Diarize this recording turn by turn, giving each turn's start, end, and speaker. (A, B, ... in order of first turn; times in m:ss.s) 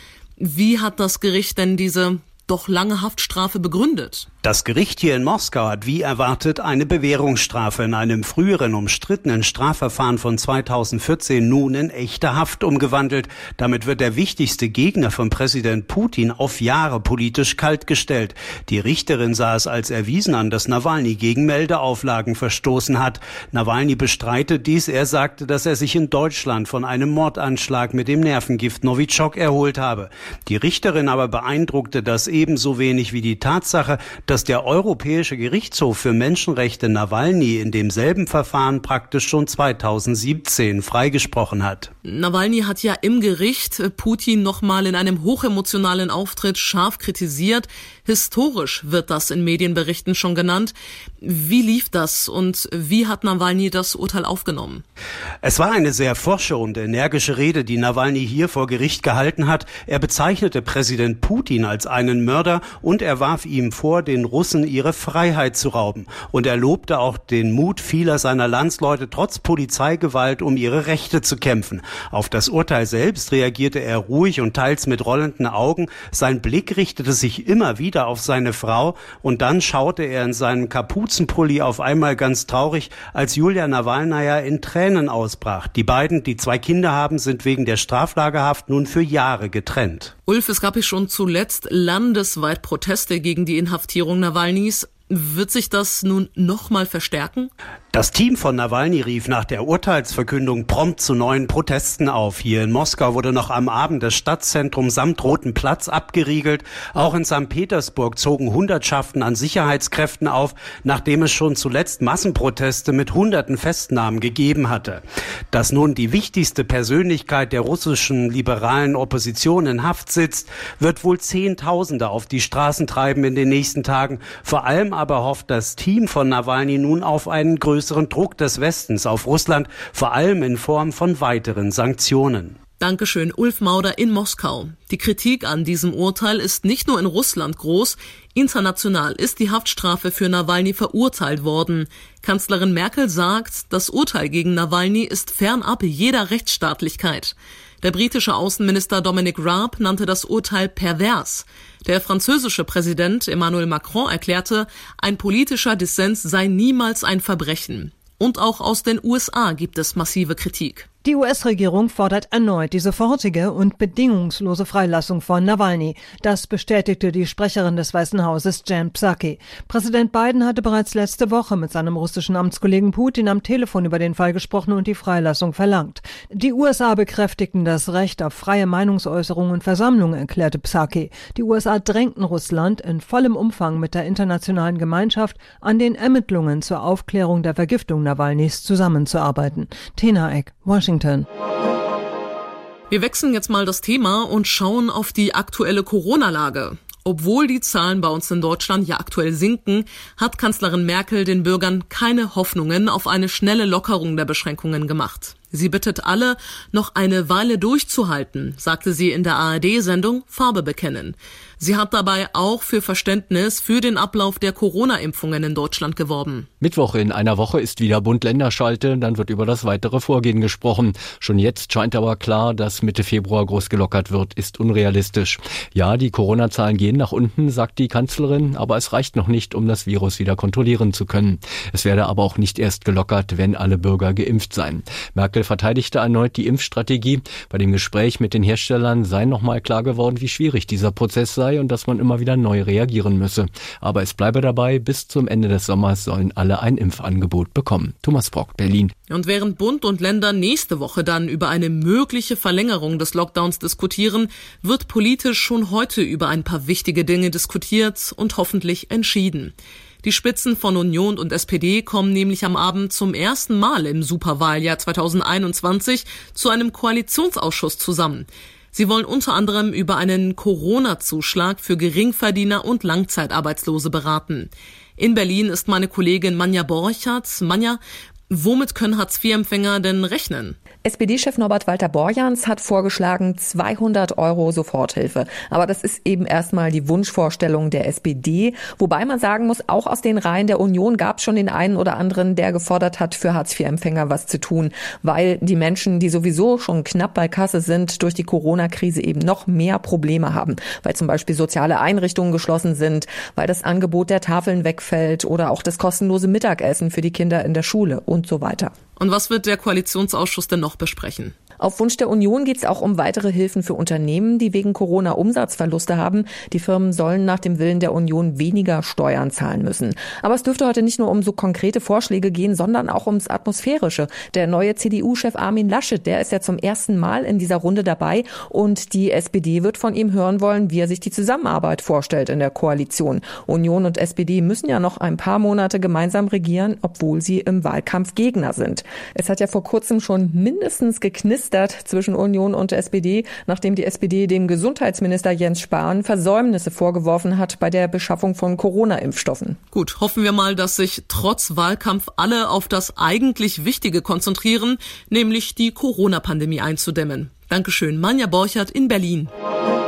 0:00.4-0:04.3 A
0:04.4-0:41.9 B
0:42.0-0:54.8 A
0:55.4-1:30.1 B
1:30.3-1:37.5 A
1:37.9-2:12.6 B
2:12.8-2:40.9 A
2:41.0-3:11.2 C
3:12.9-3:36.5 A
3:36.6-4:08.9 D
4:09.1-4:40.6 A
4:40.8-5:08.7 E
5:09.0-5:11.3 A
5:11.6-5:49.6 E
5:49.7-5:59.3 A